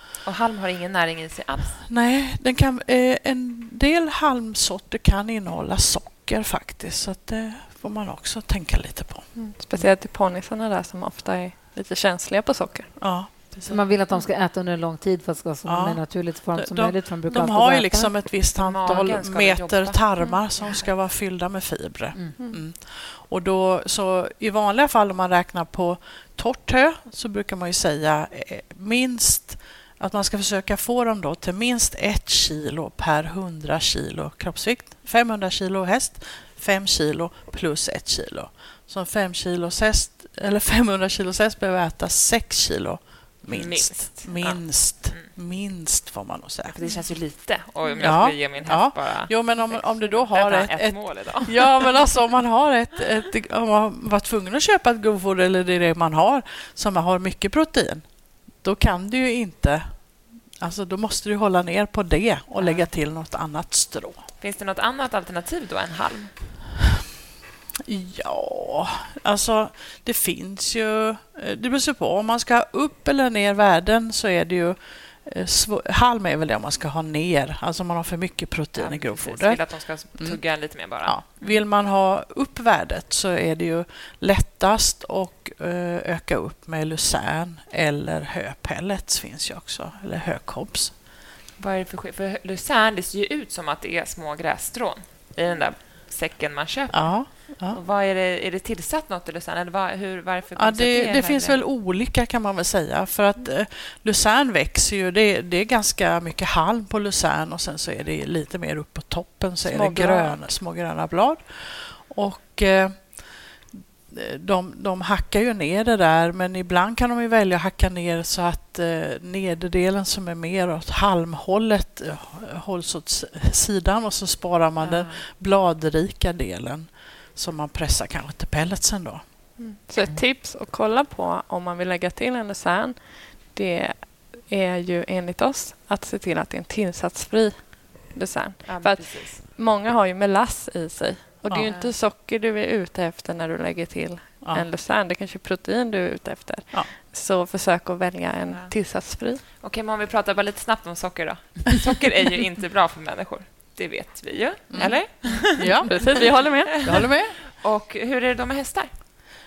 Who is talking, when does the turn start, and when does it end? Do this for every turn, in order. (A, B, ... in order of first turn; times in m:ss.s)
0:00.2-0:01.8 A
0:01.9-0:09.4 B
0:09.4-0:12.9 C
0:13.0-0:13.8 B
0:13.7-0:18.1 D
0:15.6-0:46.8 B
0:18.6-0:20.8 A
0:43.5-0:45.3 A
0:46.7-0:52.1 A
0:47.8-0:48.1 C
0:48.0-1:00.0 B
1:00.6-1:04.2 B
1:02.6-1:02.9 A
1:04.4-1:06.3 A
1:07.8-1:30.9 B
1:18.7-1:21.6 A
1:31.6-1:41.6 A
1:36.9-1:37.8 B
1:40.6-2:09.2 B
1:49.6-1:50.4 C
2:04.8-2:05.2 A
2:09.6-2:29.4 C
2:18.6-2:19.4 A
2:28.5-2:28.7 A
2:29.4-2:36.0 A
2:34.7-2:35.0 B
2:35.4-2:36.9 C
2:35.6-2:37.4 B
2:37.0-2:38.9 A